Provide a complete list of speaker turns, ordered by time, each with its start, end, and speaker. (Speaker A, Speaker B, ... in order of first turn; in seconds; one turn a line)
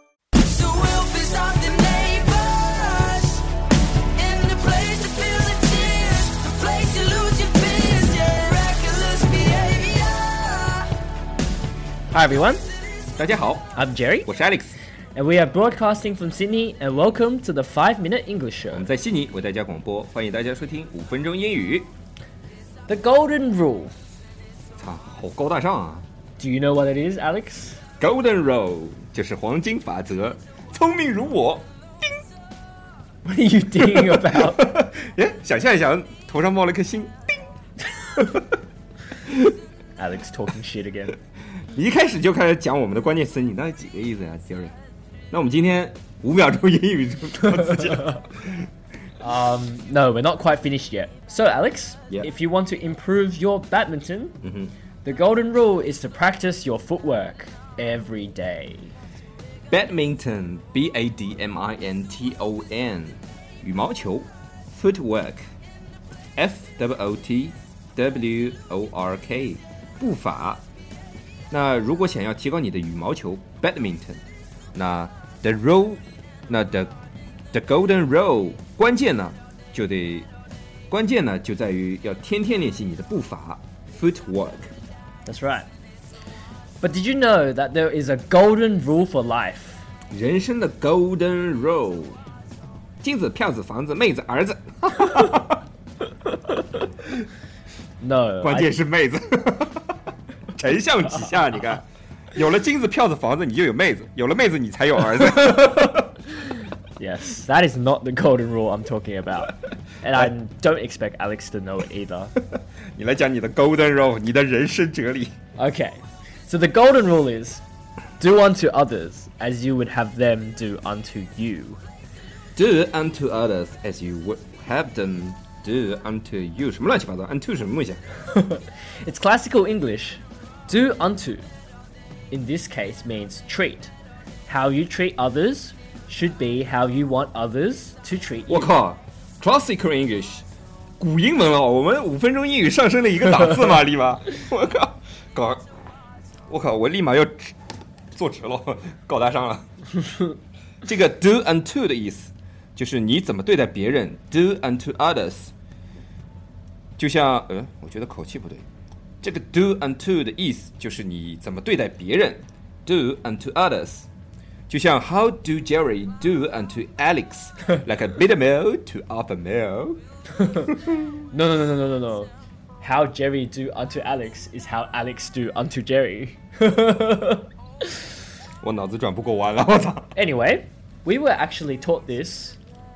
Speaker A: 0.4-3.5
Speaker A: 4.1-10.9
Speaker B: 12.1-12.6
Speaker C: 13.2-13.7
Speaker B: 13.7-14.3
Speaker C: 14.3-14.8
Speaker B: 15.2-18.9
Speaker C: 18.7-21.9
Speaker B: 22.9-23.9
Speaker C: 24.8-26.1
Speaker B: 26.4-27.8
Speaker C: 28.0-31.7
Speaker B: 33.2-34.7
Speaker C: 33.9-37.2
Speaker C: 38.0-38.5
Speaker C: 39.3-39.5
Speaker B: 40.0-41.2
Speaker C: 41.7-44.8
Speaker C: 45.3-48.7
Speaker B: 49.2-54.4
Speaker C: 54.4-54.7
Speaker B: 55.0-58.9
Speaker C: 59.7-65.4
Speaker C: 66.4-70.6
Speaker C: 71.5-74.2
Speaker C: 74.8-76.9
Speaker C: 77.5-80.3
Speaker C: 80.9-84.7
Speaker B: 85.3-85.7
Speaker B: 86.8-89.8
Speaker C: 90.1-92.2
Speaker C: 93.0-95.6
Speaker B: 96.4-96.8
Speaker B: 98.0-98.7
Speaker C: 98.4-99.9
Speaker C: 100.5-106.1
Speaker B: 107.0-112.3
Speaker C: 113.0-115.3
Speaker B: 115.6-117.6
Speaker B: 118.2-121.8
Speaker C: 122.6-128.0
Speaker B: 128.3-131.5
Speaker B: 132.3-133.9
Speaker B: 134.5-138.7
Speaker C: 138.5-140.4
Speaker C: 141.0-145.6
Speaker C: 146.5-147.6
Speaker C: 148.1-149.7
Speaker C: 150.9-155.5
Speaker C: 157.0-158.7
Speaker C: 159.2-164.1
Speaker C: 164.7-170.0
Speaker B: 170.4-170.7
Speaker B: 171.3-177.5
Speaker C: 178.6-180.1
Speaker B: 180.2-182.6